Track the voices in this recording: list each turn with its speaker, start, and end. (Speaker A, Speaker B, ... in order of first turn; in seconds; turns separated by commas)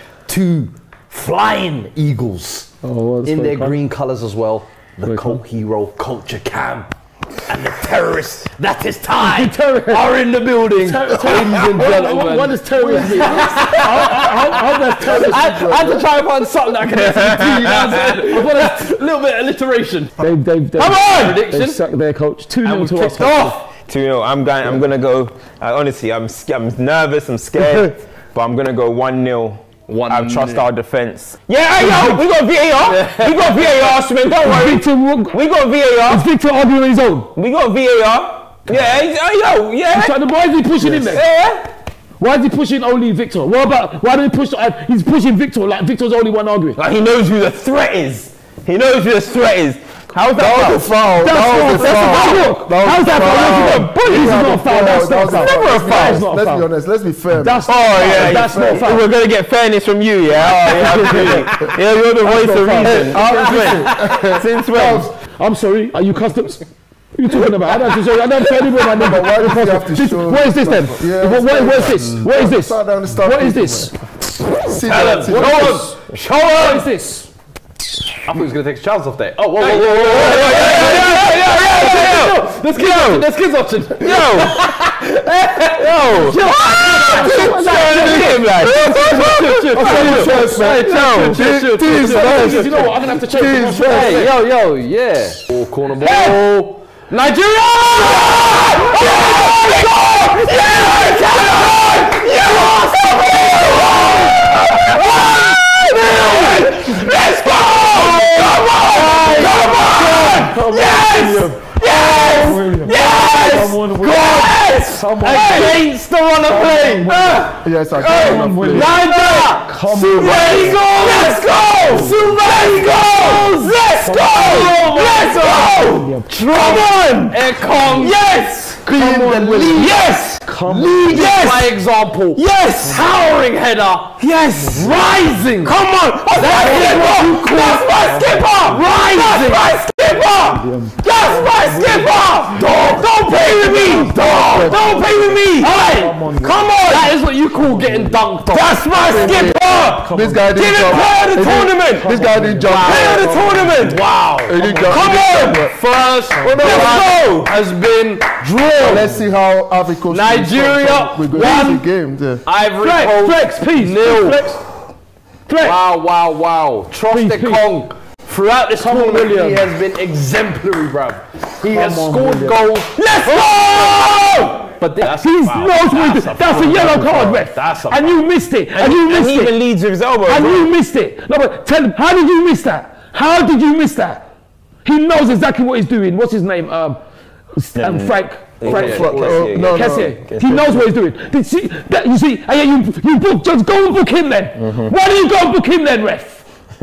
Speaker A: 0.3-2.7, Speaker B: 2.8-3.8, Speaker A: 3.2-6.9, Speaker B: 5.0-5.4, Speaker A: 7.4-20.2, Speaker B: 9.2-10.1, Speaker B: 10.8-15.6, Speaker C: 12.8-13.5, Speaker C: 14.2-16.1, Speaker D: 16.9-18.1, Speaker B: 18.1-18.8, Speaker B: 20.2-23.6, Speaker A: 20.8-21.8, Speaker A: 22.6-23.7, Speaker D: 23.8-36.3, Speaker A: 29.9-30.6, Speaker A: 31.8-32.1, Speaker A: 32.8-34.0, Speaker B: 34.4-35.4, Speaker B: 36.0-37.3, Speaker D: 37.3-40.2, Speaker B: 39.9-41.2, Speaker D: 40.8-41.7, Speaker B: 42.2-46.8, Speaker D: 46.8-54.0, Speaker C: 50.3-58.8, Speaker B: 51.2-56.7, Speaker D: 55.0-56.2, Speaker B: 57.3-59.0, Speaker D: 57.7-63.7, Speaker B: 60.6-61.5, Speaker B: 62.1-63.8, Speaker C: 62.8-65.1, Speaker A: 63.3-64.2, Speaker D: 64.3-65.1, Speaker B: 65.1-66.7, Speaker B: 67.2-74.5, Speaker C: 69.0-74.0, Speaker C: 74.7-75.9, Speaker A: 74.9-76.9, Speaker B: 75.2-75.9, Speaker B: 76.5-77.3, Speaker A: 78.2-92.8, Speaker D: 79.6-83.3, Speaker D: 84.0-84.6, Speaker D: 85.8-91.5, Speaker B: 86.9-90.7, Speaker C: 89.8-94.3, Speaker B: 91.9-94.3, Speaker A: 93.8-105.4, Speaker D: 96.0-96.4, Speaker D: 98.0-115.7, Speaker A: 106.0-111.0, Speaker B: 106.2-106.5, Speaker B: 109.4-115.8, Speaker A: 111.8-117.7, Speaker B: 116.5-120.8, Speaker C: 117.6-119.0, Speaker A: 118.7-125.4, Speaker D: 119.2-129.1, Speaker B: 121.8-126.4, Speaker A: 126.3-128.2, Speaker A: 128.8-130.1, Speaker C: 129.0-129.8, Speaker D: 129.7-130.4, Speaker B: 130.4-131.3, Speaker A: 130.6-134.2, Speaker D: 131.0-131.7, Speaker D: 132.4-133.1, Speaker B: 132.8-133.3, Speaker D: 134.2-135.1, Speaker B: 134.5-135.4, Speaker A: 134.7-135.8, Speaker D: 135.6-141.8, Speaker A: 136.4-144.9, Speaker B: 136.4-138.9, Speaker B: 140.5-148.2, Speaker D: 142.4-145.8, Speaker A: 145.5-148.9, Speaker D: 146.5-147.0, Speaker D: 148.5-154.0, Speaker B: 148.9-153.9, Speaker C: 148.9-153.6, Speaker A: 153.8-159.2, Speaker C: 154.5-155.8, Speaker D: 154.8-155.6, Speaker C: 156.3-157.1, Speaker D: 156.4-157.5, Speaker C: 158.8-162.4, Speaker A: 160.1-161.8, Speaker B: 161.3-161.8, Speaker A: 162.4-164.6, Speaker B: 162.8-164.6, Speaker B: 165.5-165.8, Speaker A: 165.6-178.2, Speaker B: 167.1-167.7, Speaker B: 168.8-169.7, Speaker B: 171.7-172.6, Speaker B: 173.2-179.6, Speaker D: 178.7-180.7, Speaker B: 180.3-184.2, Speaker B: 184.8-187.0, Speaker B: 187.6-196.4, Speaker D: 187.8-190.9, Speaker A: 188.7-189.2, Speaker C: 188.7-190.2, Speaker D: 194.6-194.9